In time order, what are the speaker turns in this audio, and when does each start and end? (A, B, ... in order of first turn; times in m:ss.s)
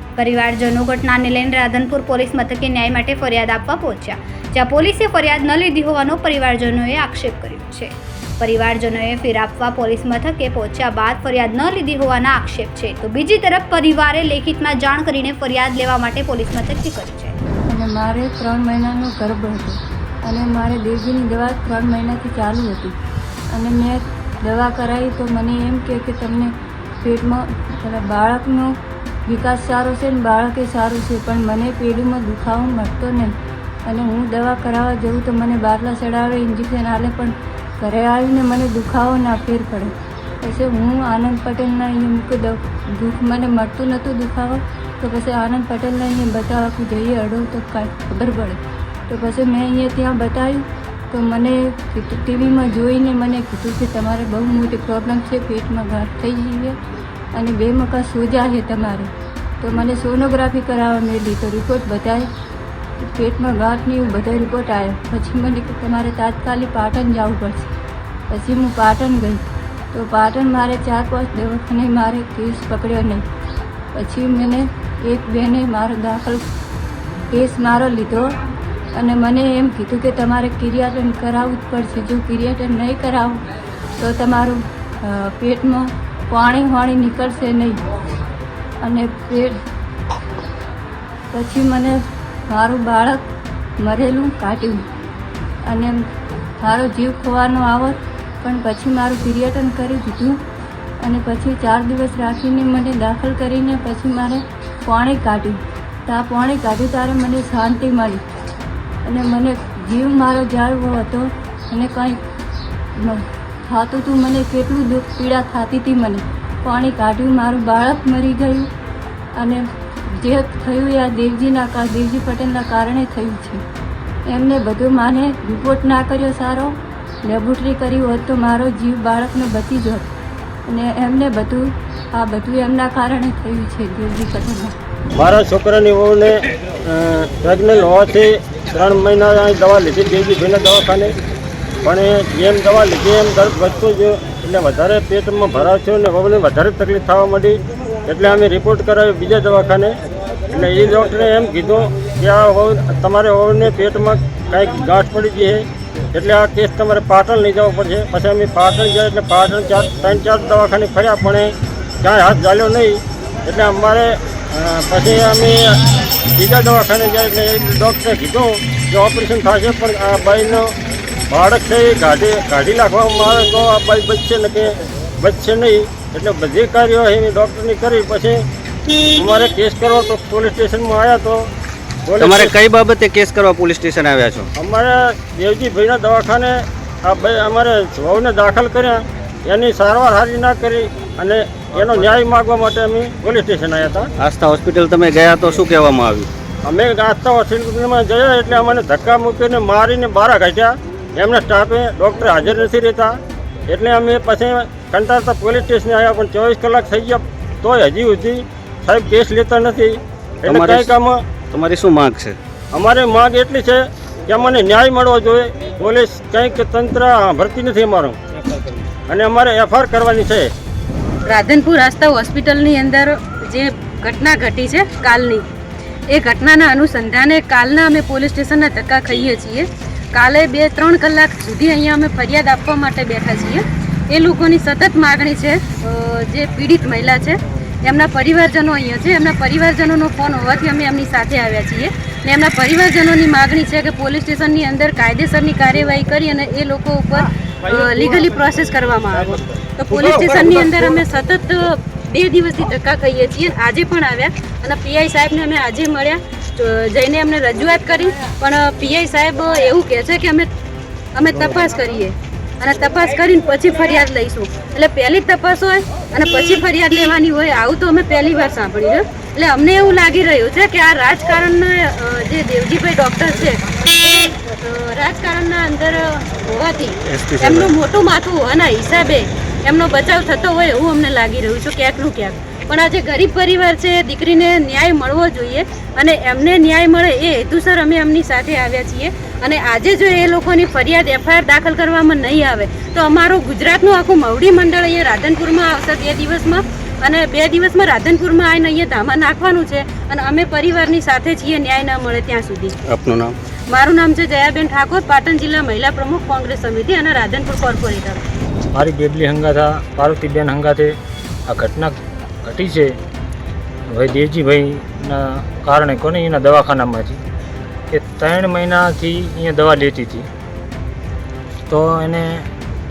0:00.2-0:17.4 A
0:17.7-0:23.0 B
0:23.5-0:28.8 B
0:29.3-0:33.3 B
0:33.8-0:56.8 B
0:57.3-0:59.1 B
0:59.6-1:02.3 B
1:03.0-1:07.7 B
1:08.3-1:13.2 B
1:13.9-1:16.4 B
1:17.3-1:18.3 B
1:19.0-1:23.4 B
1:24.0-1:27.8 B
1:28.8-1:29.5 B
1:31.3-1:33.2 B
1:33.8-1:34.8 B
1:35.7-1:36.0 B
1:36.6-1:40.4 B
1:41.0-1:48.2 B
1:49.0-1:52.2 B
1:53.0-1:58.7 B
1:59.4-1:59.6 B
2:00.2-2:03.6 B
2:04.3-2:10.1 B
2:10.7-2:14.7 B
2:15.2-2:21.1 C
2:21.8-2:29.9 C
2:30.5-2:45.8 C
2:46.4-2:50.7 C
2:51.3-2:58.4 C
2:59.1-3:01.5 C
3:02.1-3:02.5 C
3:02.2-3:04.5 D
3:04.6-3:14.1 C
3:14.2-3:16.3 D
3:16.6-3:23.2 C
3:23.7-3:31.2 C
3:30.4-3:30.9 D
3:31.5-3:32.4 D
3:32.7-3:38.2 C
3:39.1-3:40.5 C
3:41.2-3:45.4 E
3:46.1-4:20.5 E
4:21.1-5:02.7 E
4:37.1-4:37.7 D
5:02.9-5:03.3 D
5:03.7-5:08.2 E
5:08.7-5:11.0 F
5:11.5-5:12.9 F
5:13.9-5:17.2 F
5:17.9-5:20.3 F
5:21.7-5:22.5 F